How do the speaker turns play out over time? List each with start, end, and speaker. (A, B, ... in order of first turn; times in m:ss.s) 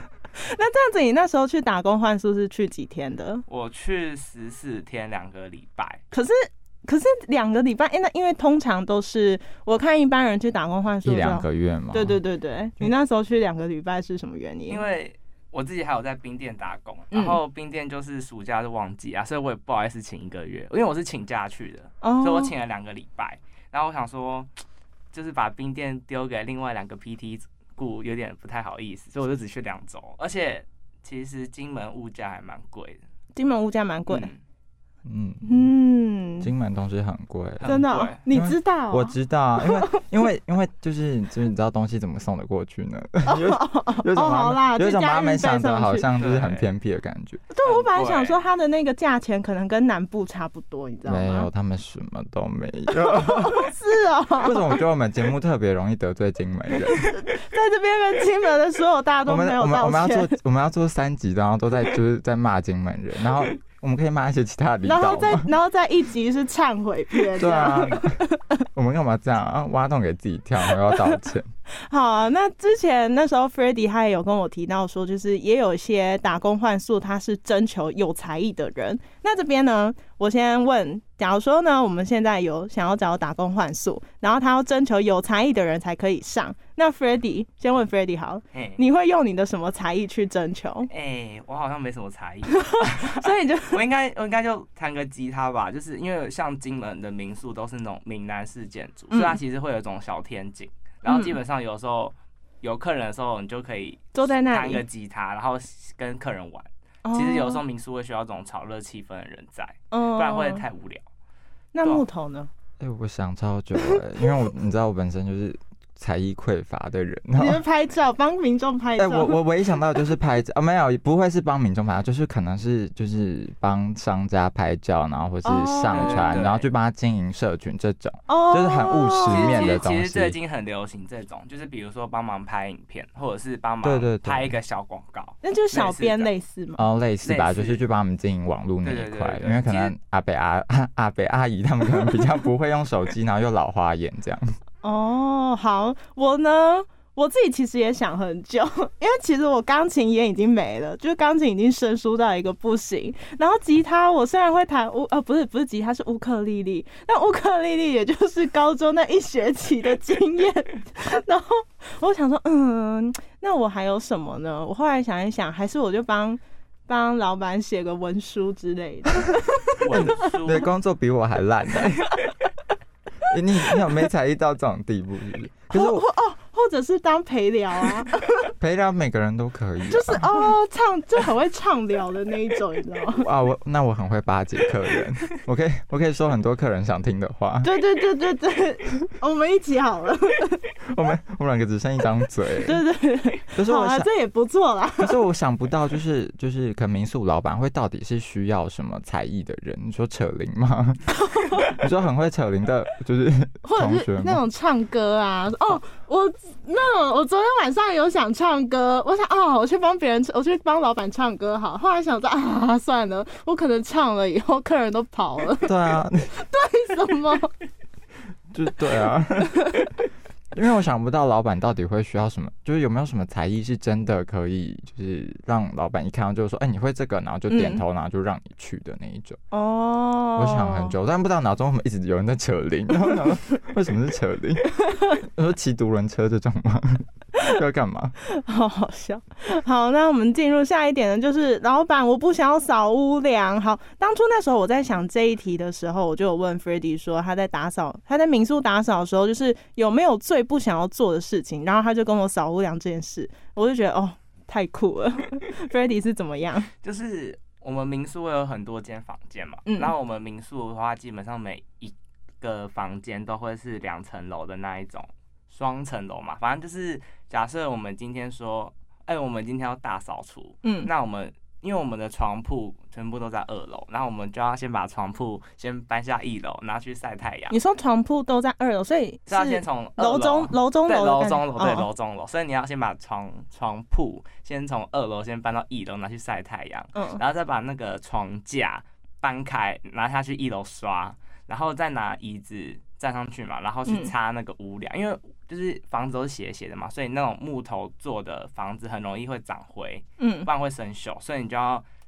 0:00.3-0:03.4 A
0:03.5-0:06.0 B
0:06.1-0:14.8 A
0:11.0-0:12.2 C
0:14.7-0:24.5 B
0:17.1-0:17.4 A
0:22.0-0:22.5 A
0:25.1-0:33.0 B
0:33.4-0:34.3 A
0:34.1-0:34.4 B
0:35.0-0:35.7 C
0:35.4-0:36.5 A
0:36.4-0:47.4 C
0:37.6-0:38.2 B
0:37.6-0:40.0 A
0:43.3-0:46.0 A
0:46.2-0:46.7 B
0:47.5-0:51.5 A
0:47.6-0:48.4 B
0:51.0-0:53.7 C
0:53.0-0:54.8 A
0:54.4-0:57.0 C
0:56.9-1:00.3 A
0:59.2-1:05.5 C
1:04.8-1:08.6 A
1:07.4-1:08.2 C
1:08.7-1:11.5 C
1:10.8-1:11.1 A
1:11.8-1:30.9 A
1:28.5-1:28.8 B
1:30.9-1:51.0 B
1:32.6-1:33.8 A
1:39.1-1:39.4 A
1:41.0-1:41.4 A
1:44.1-1:44.8 A
1:47.0-1:47.6 A
1:49.9-1:50.6 A
1:51.7-1:52.5 A
1:52.8-1:57.6 C
1:57.4-1:59.4 A
1:59.0-2:10.4 C
2:05.4-2:06.4 A
2:05.9-2:06.6 B
2:08.3-2:09.8 A
2:09.3-2:16.3 B
2:13.8-2:14.5 C
2:15.4-2:16.8 A
2:16.8-2:24.5 C
2:17.2-2:17.8 B
2:18.8-2:19.9 B
2:24.8-2:50.2 A
2:49.8-2:50.6 B
2:49.9-2:52.1 C
2:53.3-2:56.0 C
2:55.7-2:58.2 A
2:58.6-3:00.4 C
2:59.9-3:03.3 A
3:03.1-3:07.7 C
3:07.6-3:10.6 A
3:10.9-3:12.8 C
3:12.6-3:15.2 A
3:13.5-3:14.1 C
3:15.0-3:24.4 C
3:21.2-3:21.7 A
3:23.6-3:35.7 A
3:35.6-3:36.3 C
3:36.3-3:37.5 A
3:38.5-3:39.7 C
3:40.5-3:49.4 C
3:47.5-3:47.8 A
3:49.5-3:50.9 A
3:50.4-3:58.1 C
3:58.3-4:16.7 A
4:16.8-4:37.5 B
4:19.7-4:19.9 A
4:30.6-4:30.9 A
4:37.5-4:41.9 A
4:39.3-5:01.8 B
4:46.9-4:47.2 A
4:53.9-4:54.1 A
5:00.2-5:00.5 A